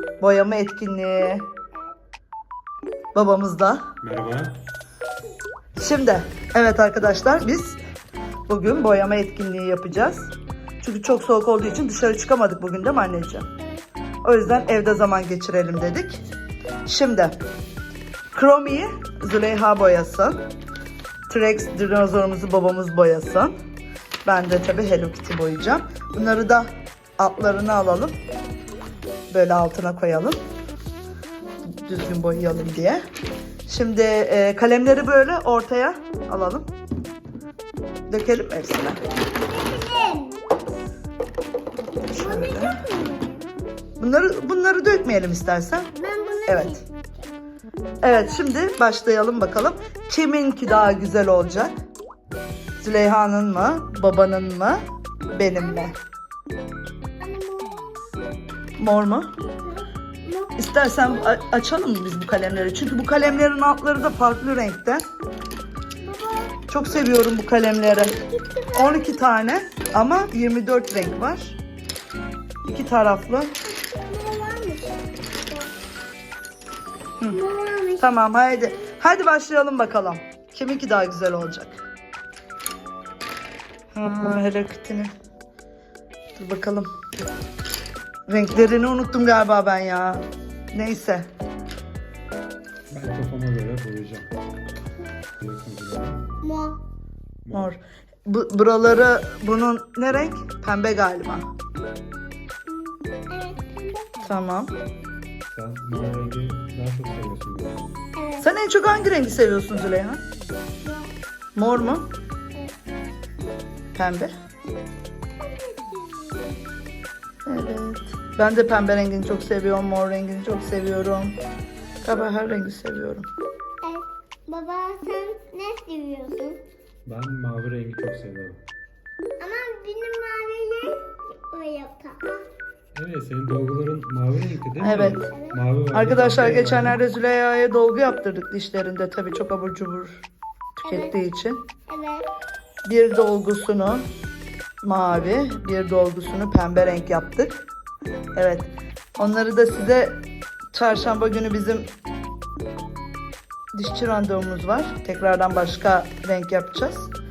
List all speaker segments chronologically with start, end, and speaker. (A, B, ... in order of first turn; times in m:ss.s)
0:00.2-0:01.4 A
0:03.1-0:03.9 A
0:04.0-0:04.6 B
0:05.8-0:07.8 A
0:08.5-0:13.5 A
0:13.6-0:13.8 C
0:14.2-0:16.2 A
0:16.8-0:17.4 A
0:18.3-0:20.4 A
0:21.3-0:23.5 A
0:24.2-0:28.2 A
0:29.3-0:30.4 A
0:31.7-0:33.0 A
0:33.7-0:36.7 A
0:38.1-0:39.0 A
0:39.4-0:40.4 C
0:42.1-0:42.8 A
0:42.1-0:43.4 C
0:44.0-0:45.9 A
0:46.0-0:47.3 C
0:46.4-0:46.8 A
0:48.0-0:51.8 A
0:48.1-0:48.6 C
0:52.8-0:54.8 A
0:55.3-0:55.9 A
0:55.6-0:55.9 C
0:57.2-0:58.2 C
0:58.8-0:59.3 A
0:59.6-1:00.6 C
1:00.6-1:05.0 A
1:06.0-1:06.6 C
1:06.7-1:08.1 A
1:08.0-1:09.2 C
1:08.7-1:11.6 A
1:12.7-1:13.5 A
1:13.7-1:15.7 C
1:17.3-1:18.1 C
1:18.0-1:21.8 A
1:23.9-1:25.1 A
1:26.4-1:26.9 A
1:28.3-1:31.3 A
1:32.9-1:34.3 B
1:35.4-1:36.3 B
1:36.4-1:36.8 C
1:37.4-1:37.7 B
1:37.5-1:41.5 A
1:42.7-1:44.1 C
1:44.2-1:44.7 A
1:45.5-1:48.0 B
1:48.2-1:48.5 C
1:48.4-1:50.2 A
1:50.8-1:51.1 C
1:51.6-1:52.1 A
1:54.0-1:54.3 A
1:55.3-1:56.8 C
1:57.4-2:01.4 A
2:02.0-2:03.3 A
2:03.8-2:06.6 C
2:07.1-2:08.6 B
2:09.4-2:12.5 C
2:12.9-2:17.0 B
2:14.8-2:15.2 A
2:15.3-2:15.6 C
2:15.9-2:20.2 A
2:20.8-2:21.6 A
2:20.8-2:21.2 C
2:21.9-2:22.2 C
2:22.8-2:24.1 A
2:24.8-2:27.7 A
2:28.3-2:31.9 A
2:33.7-2:37.1 A